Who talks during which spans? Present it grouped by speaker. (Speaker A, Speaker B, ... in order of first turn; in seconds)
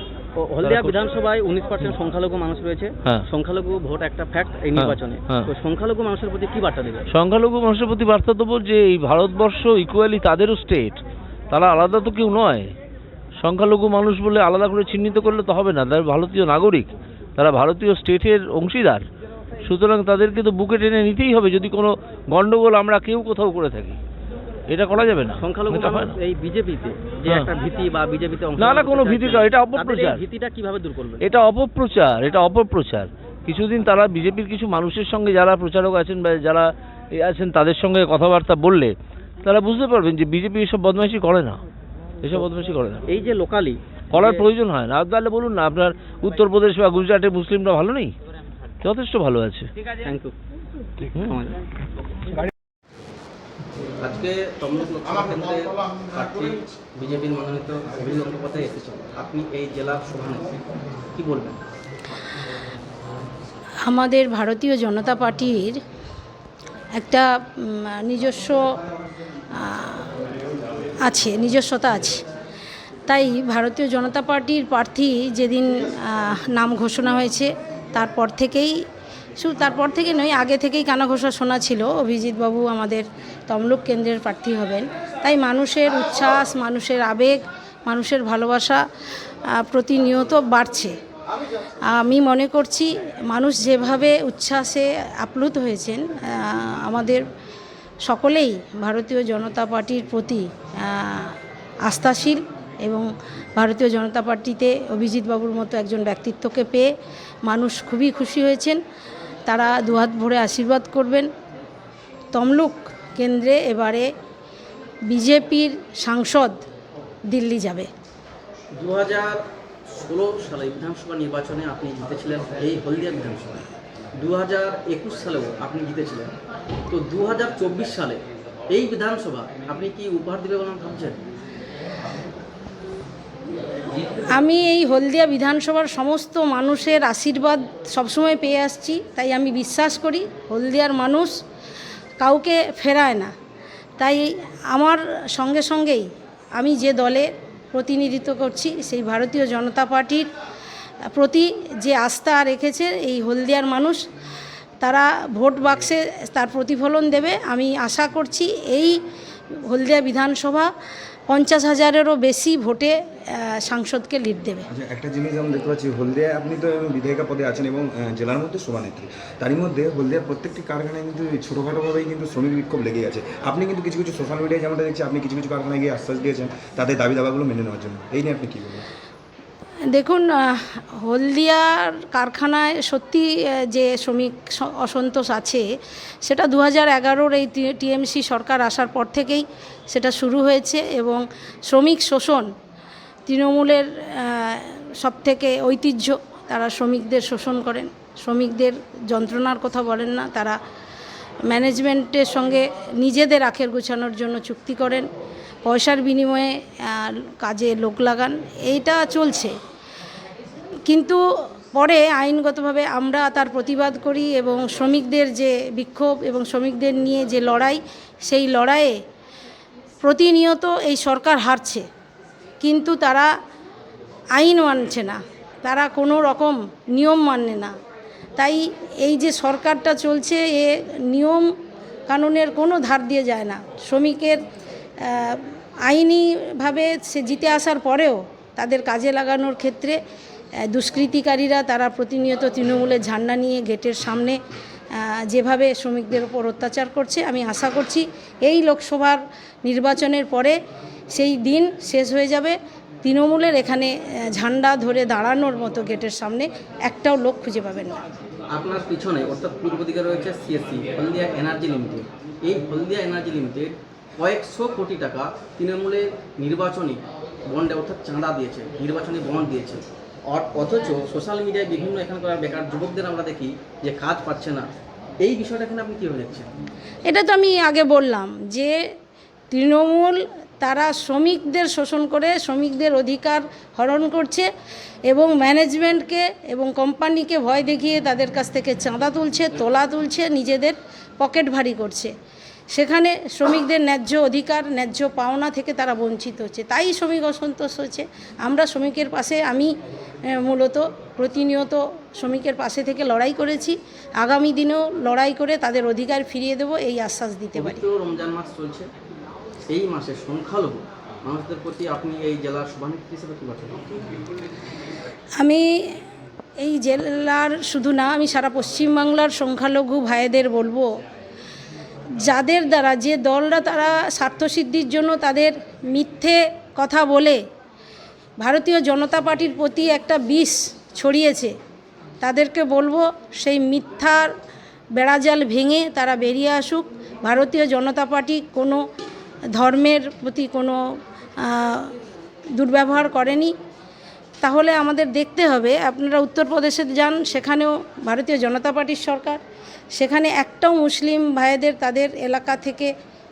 Speaker A: 0.3-7.1, 25.4-31.2, 43.1-44.4, 50.0-50.3, 51.2-51.6, 54.0-60.6, 61.1-61.6, 118.7-126.3, 126.9-131.2, 133.9-134.3, 258.5-274.6, 275.2-276.5, 307.6-308.9, 309.7-314.1
Speaker B: 0.6-1.0, 4.8-5.5, 7.1-11.0, 11.5-12.7, 13.4-19.0, 19.6-24.0, 24.7-26.2, 28.6-30.2, 31.2-38.9, 39.4-41.6, 42.2-43.0, 44.1-48.1, 48.8-49.7, 51.1-51.4
Speaker C: 63.9-65.8, 67.0-68.8, 69.5-70.1, 71.0-72.2, 73.1-78.8, 79.4-88.8, 89.5-90.9, 91.9-97.2, 98.0-106.9, 107.5-108.8, 109.5-111.3, 112.3-114.1, 115.1-116.6, 117.3-117.9, 134.3-141.3, 142.2-143.3, 144.0-146.1, 146.6-150.3, 151.1-154.0, 154.8-159.0, 159.7-160.7, 161.3-164.7, 179.9-185.6, 186.2-192.5, 193.3-200.6, 201.5-205.1, 205.6-209.5, 210.9-211.2, 211.7-218.9, 220.0-221.8, 222.6-223.3, 224.3-227.8, 228.4-231.5, 232.1-234.4, 235.0-240.0, 240.7-244.4, 244.9-250.6, 251.1-258.0, 277.1-278.8, 279.5-284.5, 285.1-292.1, 292.7-299.7, 300.3-307.8, 315.4-316.0, 316.6-320.9, 322.2-327.4, 328.4-331.5, 332.2-334.3, 334.9-338.8, 339.5-340.8, 341.4-341.9, 342.6-343.5, 344.4-349.4, 349.9-352.9
Speaker D: 164.7-178.8